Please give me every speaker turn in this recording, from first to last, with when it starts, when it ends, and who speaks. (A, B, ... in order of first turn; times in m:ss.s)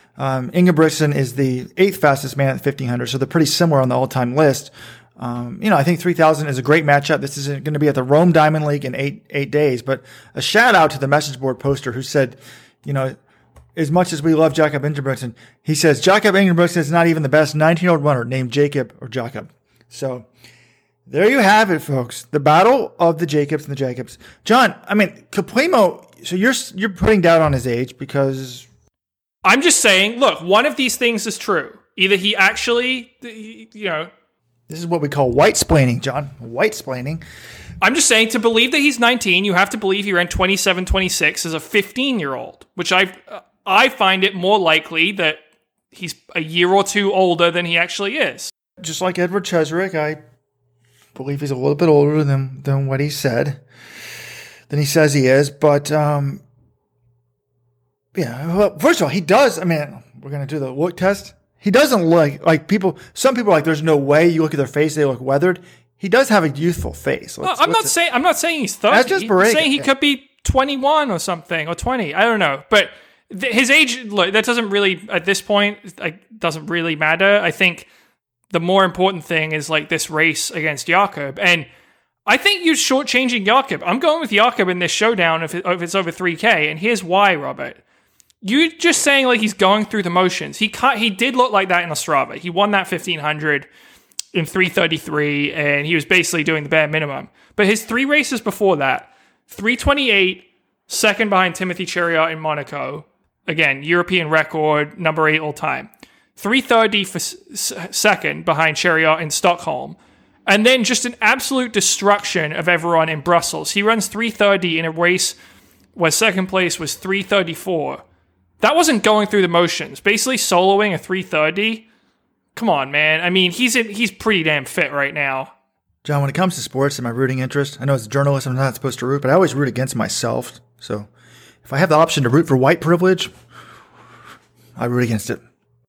0:00.2-0:13.2 A
0:13.7-0:20.3 A
0:21.1-0:28.7 A
0:29.4-0:34.1 B
0:34.7-0:37.2 A
0:37.8-0:45.4 B
0:45.9-0:48.5 B
0:48.8-0:50.2 A
0:51.1-0:53.6 A
0:54.7-0:56.4 A
0:58.1-1:07.9 A
1:07.4-1:17.9 B
1:08.9-1:09.9 A
1:18.5-1:21.7 B
1:22.3-1:27.8 B
1:28.4-1:33.7 B
1:34.3-1:55.4 B
1:55.9-1:58.0 B
1:58.6-2:01.8 B
2:02.6-2:05.5 B
2:06.0-2:11.1 A
2:11.6-2:13.3 A
2:14.8-2:15.4 A